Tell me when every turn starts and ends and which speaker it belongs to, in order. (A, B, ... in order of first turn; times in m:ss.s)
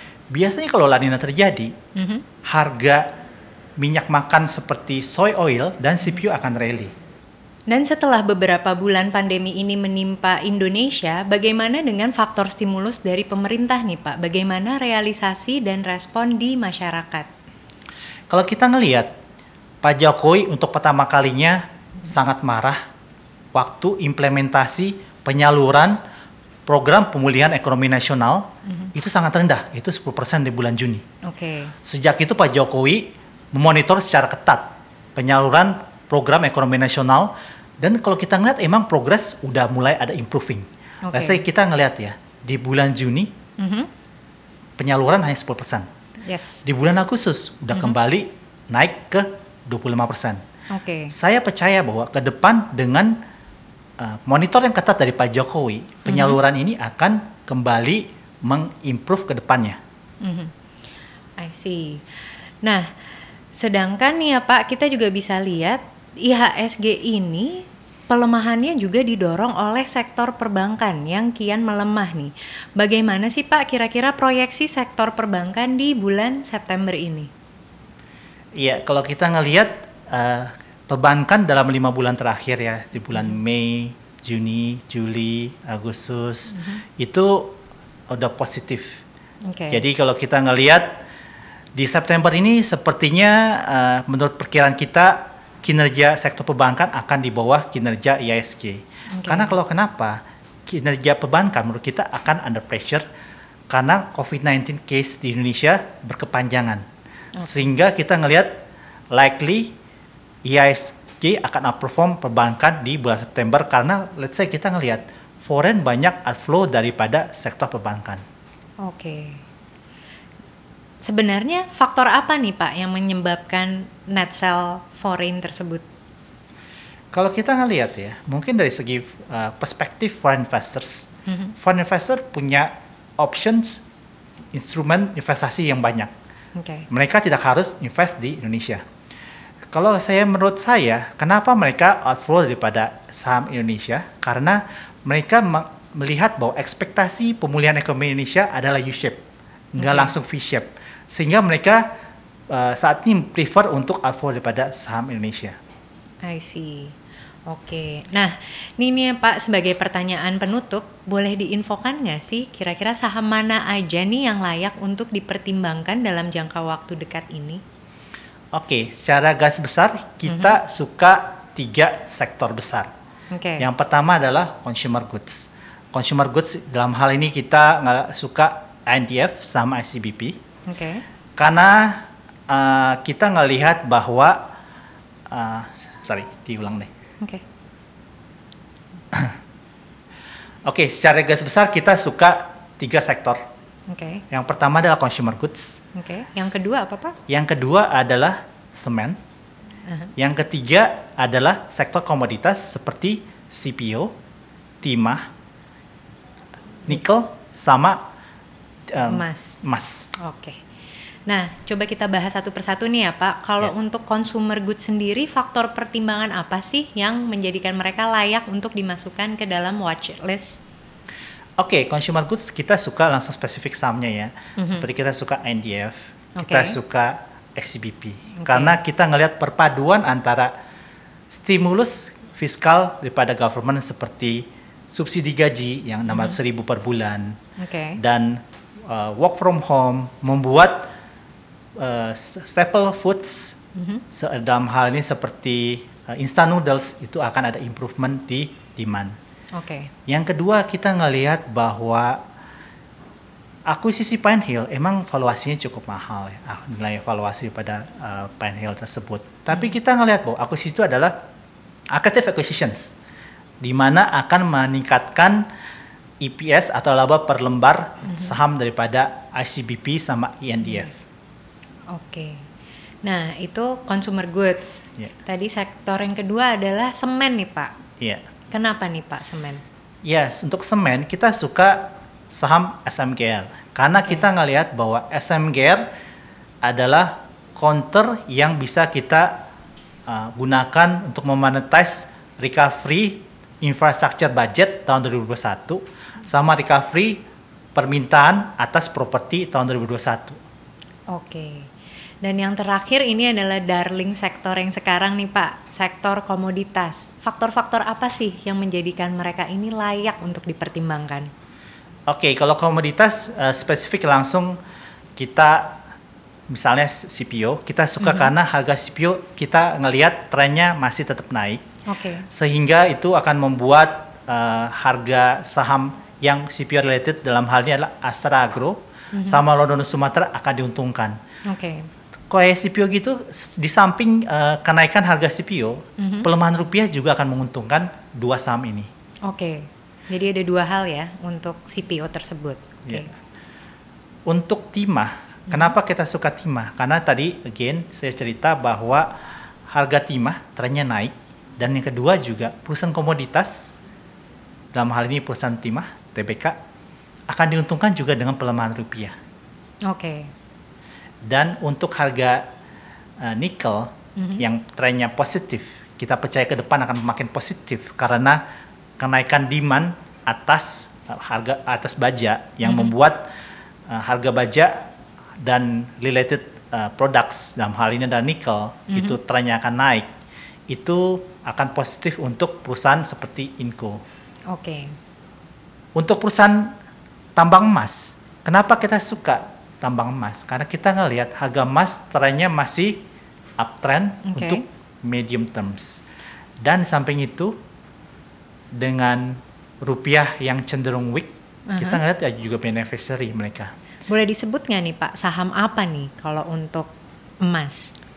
0:00.3-0:01.7 A
0:02.0-0:02.2 B
0:02.5-0:03.0 A
0:03.8-0:06.9 A
0:07.7-0:17.3 B
0:18.3-0:19.1 A
0:19.8-0:22.8 A
0:23.5-0:26.0 A
0:26.7-0:31.0 A
0:31.3-0:31.7 B
0:31.8-0:43.3 A
0:41.1-0:41.4 B
0:43.6-0:43.9 B
0:44.8-0:45.9 A
0:46.3-0:46.6 B
0:46.6-0:50.4 A
0:50.7-0:51.1 B
0:51.1-0:53.2 A
0:54.0-0:59.8 A
0:56.1-0:56.4 B
1:00.2-1:00.5 B
1:01.4-1:02.0 B
1:02.6-1:02.9 B
1:03.5-1:17.3 B
1:18.6-1:27.6 A
1:26.6-1:26.8 B
1:28.1-1:29.0 A
1:29.5-1:29.8 B
1:29.7-1:31.0 A
1:31.8-1:43.0 A
1:39.2-1:39.6 B
1:43.7-1:46.8 A
1:47.4-1:47.6 B
1:47.4-1:48.5 A
1:49.1-1:49.8 A
1:50.4-1:58.2 A
1:58.8-1:59.4 B
2:01.0-2:05.8 B
2:07.1-2:11.1 A
2:11.3-2:11.6 B
2:11.6-2:13.8 A
2:14.5-2:16.1 A
2:16.6-2:16.9 B
2:16.9-2:18.8 A
2:19.7-2:29.2 A
2:29.7-2:31.8 A
2:29.8-2:30.1 B
2:32.5-2:35.6 A
2:36.2-2:37.0 B
2:37.5-2:47.6 B
2:48.5-2:52.9 A
2:50.3-2:50.6 B
2:53.3-2:53.6 B
2:53.6-3:00.4 A
3:00.7-3:01.0 B
3:01.4-3:04.4 A
3:05.3-3:06.9 A
3:10.7-3:13.4 A
3:13.9-3:14.2 B
3:14.3-3:15.8 A
3:16.0-3:17.2 B
3:17.3-3:19.2 A
3:19.9-3:20.1 B
3:20.2-3:24.1 A
3:24.8-3:25.3 A
3:26.9-3:28.0 A
3:28.9-3:30.1 A
3:29.0-3:29.6 B
3:30.2-3:30.6 B
3:31.3-3:40.6 B
3:41.6-3:50.5 A
3:44.6-3:44.9 B
3:46.4-3:46.8 B
3:48.4-3:48.8 B
3:51.3-3:57.4 A
3:56.1-3:56.4 B
3:57.6-3:58.0 B
3:58.0-4:00.9 A
4:01.8-4:03.6 A
4:03.8-4:04.0 B
4:04.1-4:09.1 A
4:09.6-4:09.9 B
4:10.1-4:12.2 A
4:13.7-4:21.1 A
4:21.9-4:22.9 A
4:23.6-4:25.4 A
4:26.2-4:30.9 A
4:28.1-4:28.4 B
4:30.6-4:30.9 B
4:31.9-4:32.4 B
4:33.0-4:37.7 B
4:38.0-4:38.3 A
4:38.5-4:39.6 B
4:40.0-4:45.8 A
4:46.6-4:49.4 A
4:50.1-4:57.2 A
4:57.8-5:00.4 A
5:01.1-5:01.7 B
5:02.2-5:11.3 B
5:12.1-5:14.6 A
5:15.2-5:15.8 A
5:16.5-5:21.6 A
5:18.0-5:18.3 B
5:21.9-5:22.3 B
5:22.3-5:31.2 A
5:29.1-5:29.4 B
5:31.5-5:31.9 B
5:32.3-5:38.9 A
5:36.0-5:36.3 B
5:39.3-5:43.1 B
5:44.3-5:49.1 A
5:49.7-5:53.7 A
5:54.7-5:56.6 A
5:57.3-5:59.1 A
5:59.9-6:00.3 B
6:01.3-6:02.4 A
6:03.2-6:08.4 A
6:04.2-6:04.4 B
6:09.0-6:13.2 A
6:12.6-6:12.9 B
6:13.9-6:14.8 A
6:15.4-6:20.1 A
6:18.9-6:19.2 B
6:20.7-6:24.0 A
6:24.5-6:24.9 B
6:26.0-6:26.7 A
6:27.4-6:33.0 A
6:33.6-6:36.0 A
6:34.3-6:34.6 B
6:36.6-6:37.6 A
6:38.8-6:43.7 A
6:41.7-6:42.0 B
6:44.1-6:46.9 B
6:47.4-6:47.9 B